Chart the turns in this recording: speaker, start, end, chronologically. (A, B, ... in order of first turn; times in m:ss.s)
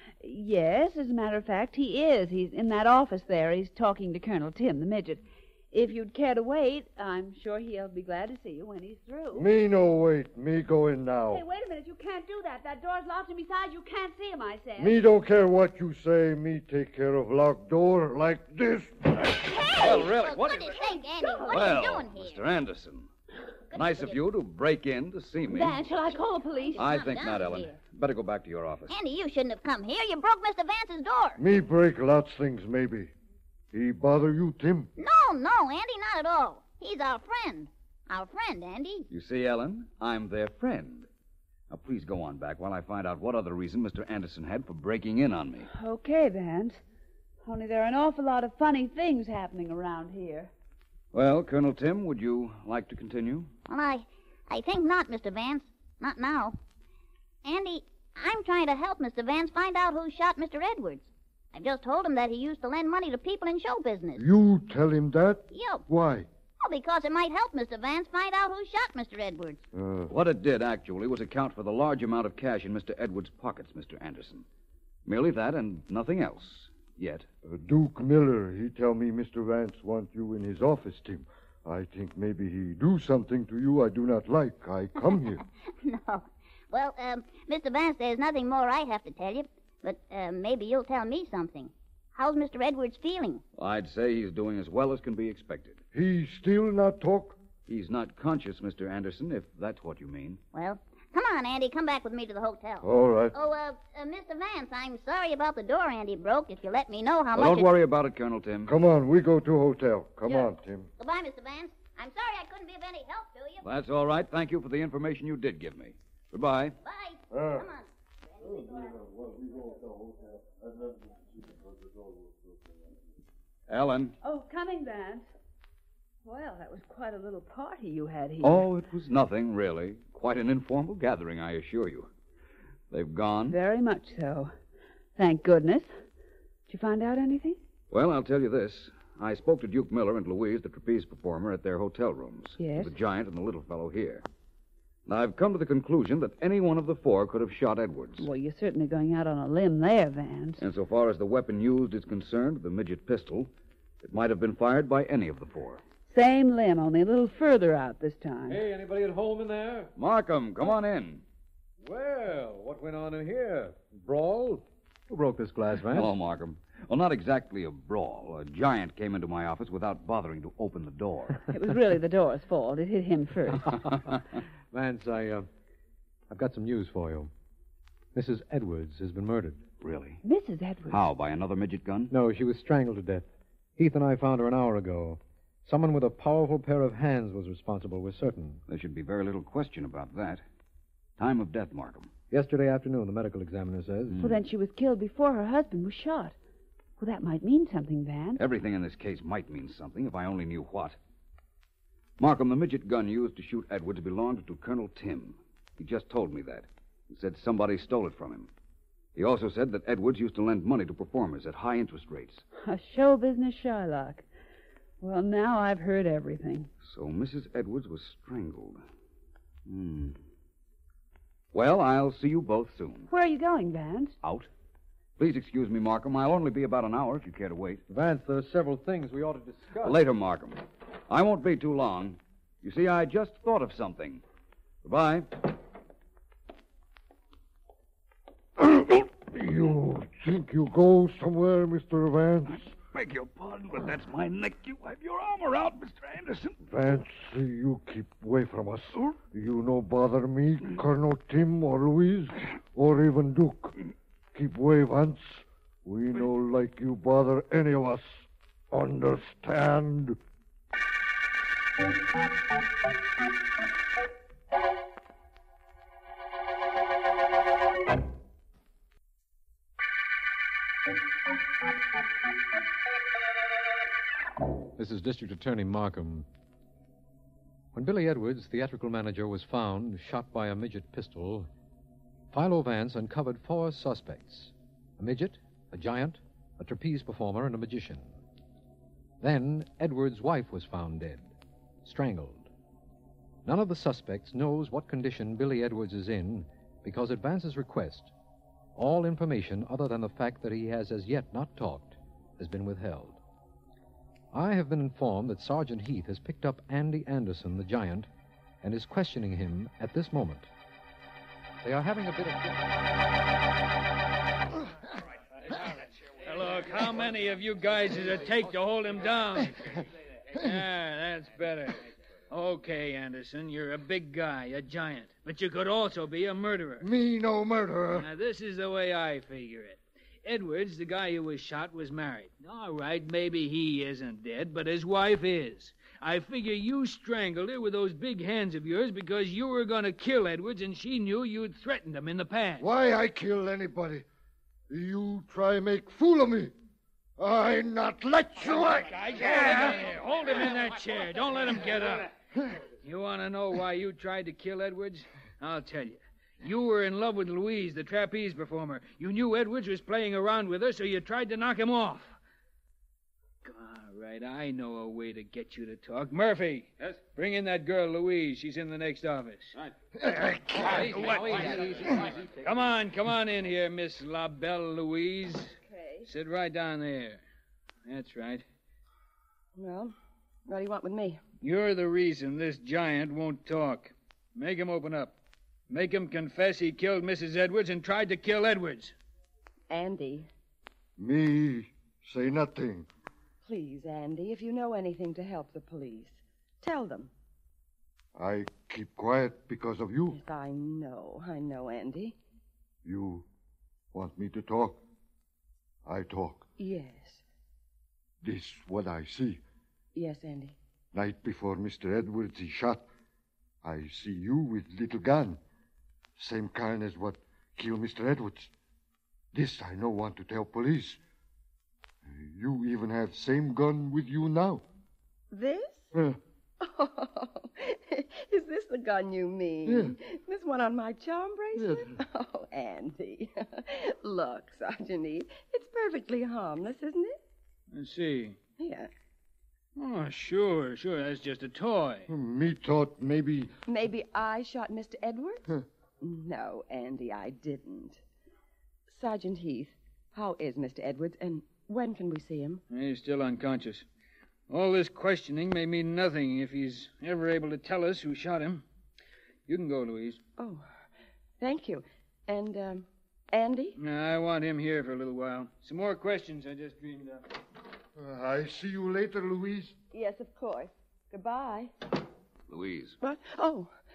0:00.2-0:09.4 A
0:09.3-0:11.4 B
0:11.3-0:15.0 A
0:14.8-0:19.5 B
0:19.3-0:22.4 C
0:19.8-0:20.8 D
0:21.2-0:21.7 A
0:21.5-0:23.1 D
0:23.7-0:25.8 D
0:23.8-0:24.0 C
0:25.5-0:26.9 A
0:26.8-0:27.7 C
0:26.8-0:29.0 D
0:28.9-0:31.4 C
0:31.4-0:33.1 B
0:33.7-0:34.9 B
0:35.0-0:39.1 C
0:39.1-0:41.1 D
0:41.7-0:45.7 D
0:45.7-0:46.8 A
0:47.4-0:50.5 A
0:51.1-0:53.5 D
0:53.7-0:56.6 C
0:57.4-1:04.2 C
1:04.2-1:06.3 B
1:05.5-1:05.8 C
1:06.6-1:09.6 C
1:09.7-1:10.1 B
1:10.1-1:14.5 D
1:15.0-1:17.3 D
1:17.4-1:25.4 B
1:25.8-1:33.4 C
1:33.6-1:35.8 D
1:35.9-1:37.4 B
1:37.7-1:40.4 D
1:40.5-1:47.7 C
1:42.8-1:43.4 B
1:47.3-1:48.7 D
1:48.7-1:50.9 B
1:51.0-1:53.6 C
1:53.6-1:56.8 D
1:56.8-1:58.9 C
1:57.3-1:57.7 B
1:58.4-2:02.8 B
2:03.7-2:04.2 D
2:04.2-2:05.3 A
2:06.2-2:08.7 A
2:08.4-2:12.1 D
2:12.9-2:13.6 D
2:13.5-2:14.5 A
2:15.2-2:15.9 A
2:16.7-2:17.6 A
2:17.9-2:24.3 D
2:22.6-2:22.9 A
2:25.1-2:28.3 D
2:28.2-2:30.6 A
2:30.6-2:33.5 D
2:34.0-2:35.8 D
2:36.1-2:38.6 A
2:38.5-2:39.9 E
2:40.0-2:41.2 D
2:41.8-2:46.1 E
2:45.9-2:51.4 D
2:51.5-2:53.8 A
2:54.7-2:55.5 E
2:56.3-2:57.3 E
2:58.1-2:59.6 E
2:59.8-3:00.2 D
3:00.2-3:01.0 A
3:00.9-3:02.1 D
3:02.1-3:08.6 E
3:08.7-3:10.4 D
3:11.2-3:12.1 D
3:12.3-3:14.2 E
3:14.1-3:14.4 D
3:14.2-3:16.4 A
3:17.0-3:18.4 A
3:18.4-3:21.0 D
3:22.2-3:28.5 D
3:29.2-3:32.4 D
3:32.6-3:34.2 A
3:35.0-3:36.7 A
3:36.8-3:38.8 D
3:39.7-3:40.2 D
3:41.5-3:43.1 D
3:43.1-3:44.2 A
3:44.2-3:44.5 D
3:45.2-3:47.8 D
3:47.9-3:50.0 E
3:49.8-3:54.2 D
3:54.8-3:55.5 D
3:58.6-4:02.7 B
4:02.9-4:06.6 D
4:06.7-4:13.8 B
4:14.3-4:20.2 B
4:34.8-4:36.3 E
4:37.7-4:41.5 E
4:42.3-4:48.2 E
4:49.2-4:51.3 E
4:51.8-4:52.5 E
4:53.4-4:58.1 E
4:58.8-5:03.2 E
5:04.3-5:08.1 E
5:08.6-5:10.5 E
5:11.6-5:12.6 E
5:15.5-5:19.8 F
5:20.4-5:26.9 F
5:26.8-5:28.1 B
5:27.9-5:42.7 F
5:42.6-5:44.1 B
5:44.7-5:46.5 B
5:47.2-5:49.8 B
5:48.4-5:52.1 F
5:52.8-6:02.2 F
6:03.4-6:09.7 F
6:10.4-6:17.2 F
6:17.8-6:18.4 F
6:19.6-6:19.9 G
6:20.5-6:21.2 G
6:21.4-6:25.2 F
6:25.7-6:28.9 F
6:29.7-6:30.3 G
6:31.0-6:32.9 B
6:33.4-6:37.1 G
6:38.2-6:40.2 B
6:40.1-6:42.2 G
6:42.8-6:43.3 B
6:43.9-6:44.8 B
6:45.8-6:46.5 B
6:46.6-6:47.2 G
6:48.2-6:49.4 B
6:50.0-6:50.6 G
6:50.9-6:52.9 B
6:53.6-6:55.4 B
6:56.2-6:58.5 B
6:59.3-7:01.0 B
7:02.0-7:04.6 B
7:05.3-7:05.9 G
7:06.6-7:17.2 G
7:09.7-7:10.0 B
7:11.6-7:11.9 B
7:17.7-7:18.4 F
7:18.6-7:18.9 G
7:19.8-7:22.1 F
7:22.1-7:23.5 B
7:23.7-7:25.4 G
7:26.0-7:28.0 G
7:28.9-7:32.6 G
7:32.7-7:33.9 F
7:34.5-7:38.6 F
7:39.5-7:40.2 F
7:40.4-7:40.7 G
7:41.4-7:43.8 G
7:43.8-7:47.3 F
7:48.0-7:49.7 B
7:49.9-7:51.7 G
7:52.5-7:53.0 D
7:53.0-7:53.7 G